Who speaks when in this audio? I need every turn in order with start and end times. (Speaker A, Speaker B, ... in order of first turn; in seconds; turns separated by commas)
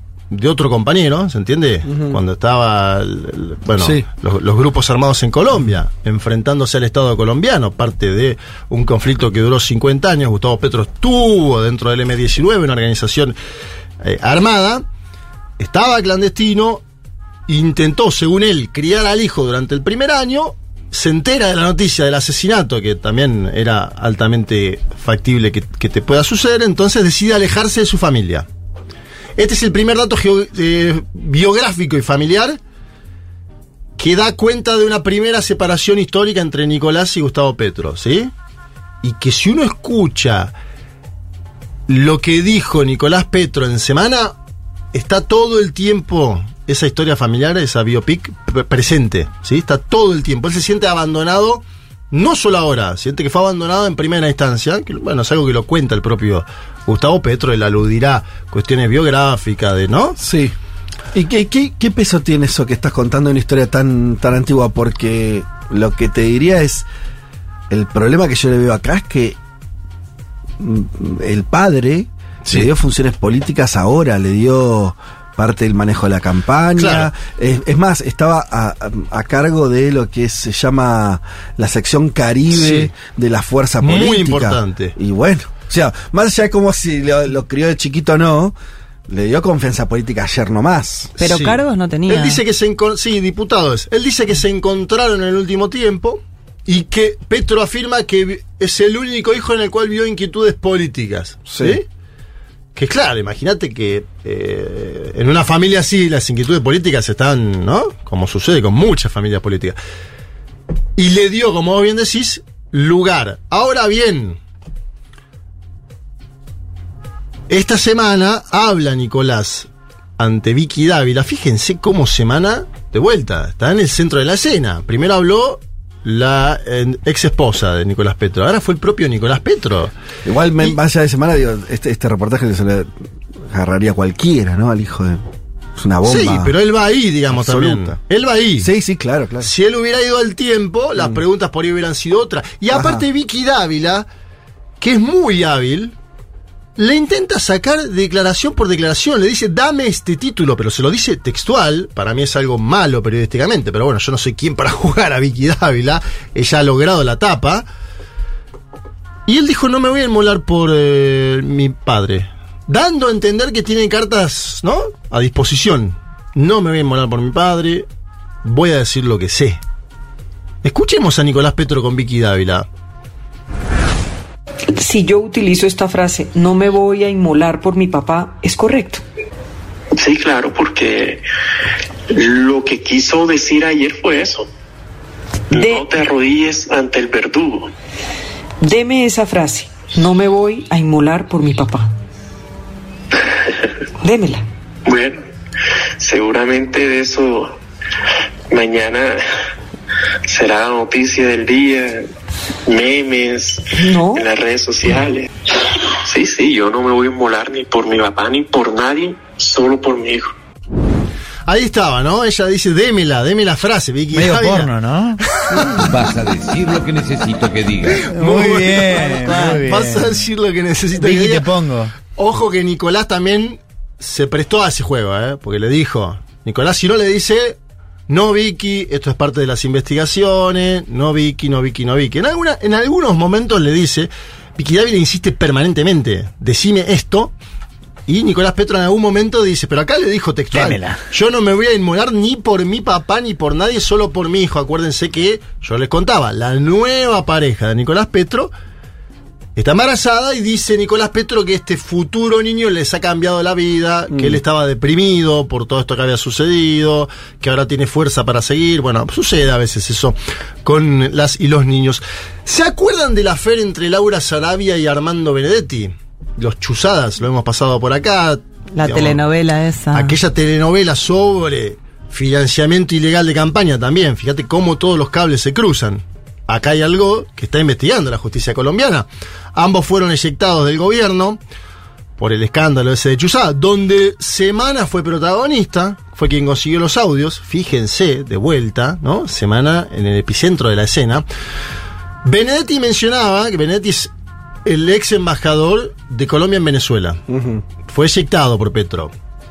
Speaker A: 0.3-13.3, Speaker B: 1.9-2.2, Speaker B: 3.8-4.0, Speaker A: 14.0-14.8, Speaker A: 15.6-16.8, Speaker A: 17.5-28.5, Speaker A: 29.4-32.6, Speaker A: 34.0-38.3, Speaker A: 39.0-40.5, Speaker A: 41.9-44.3, Speaker A: 44.9-60.2, Speaker B: 60.2-60.5, Speaker B: 61.1-66.9, Speaker B: 67.7-69.4, Speaker B: 70.6-88.5, Speaker A: 76.8-77.1, Speaker A: 82.5-82.9, Speaker A: 83.8-84.9, Speaker B: 89.1-91.1, Speaker C: 91.2-92.4, Speaker A: 91.2-101.8, Speaker B: 101.5-101.8, Speaker A: 102.7-109.8, Speaker A: 111.0-114.4, Speaker A: 117.5-129.9, Speaker B: 130.2-135.2, Speaker B: 135.8-136.5, Speaker A: 136.1-138.7, Speaker B: 137.3-138.0, Speaker B: 138.6-139.5, Speaker A: 139.4-144.1, Speaker B: 142.7-143.0, Speaker A: 144.8-145.9, Speaker A: 146.8-157.6, Speaker A: 159.2-167.9, Speaker A: 168.4-169.6, Speaker A: 170.6-172.7, Speaker D: 174.7-179.0, Speaker E: 180.0-181.2, Speaker E: 182.1-184.5, Speaker E: 185.5-187.7, Speaker D: 185.5-185.8, Speaker D: 188.6-191.9, Speaker D: 194.0-194.4, Speaker E: 194.9-195.2, Speaker E: 196.0-197.5, Speaker E: 198.5-199.2, Speaker E: 200.2-202.1, Speaker E: 202.7-205.3, Speaker D: 203.8-204.2, Speaker E: 206.0-210.3, Speaker A: 211.5-214.7, Speaker F: 214.1-215.8, Speaker A: 215.3-215.8, Speaker G: 215.8-218.1, Speaker A: 218.1-221.5, Speaker F: 218.1-220.2, Speaker F: 220.9-221.9, Speaker A: 222.1-237.3, Speaker A: 238.1-248.5, Speaker F: 240.5-241.0, Speaker A: 249.6-269.2, Speaker B: 254.1-254.4, Speaker C: 268.7-270.1, Speaker A: 269.9-281.4, Speaker A: 282.2-291.2, Speaker A: 292.2-294.1, Speaker A: 294.6-297.2, Speaker B: 297.3-297.6, Speaker A: 297.9-299.1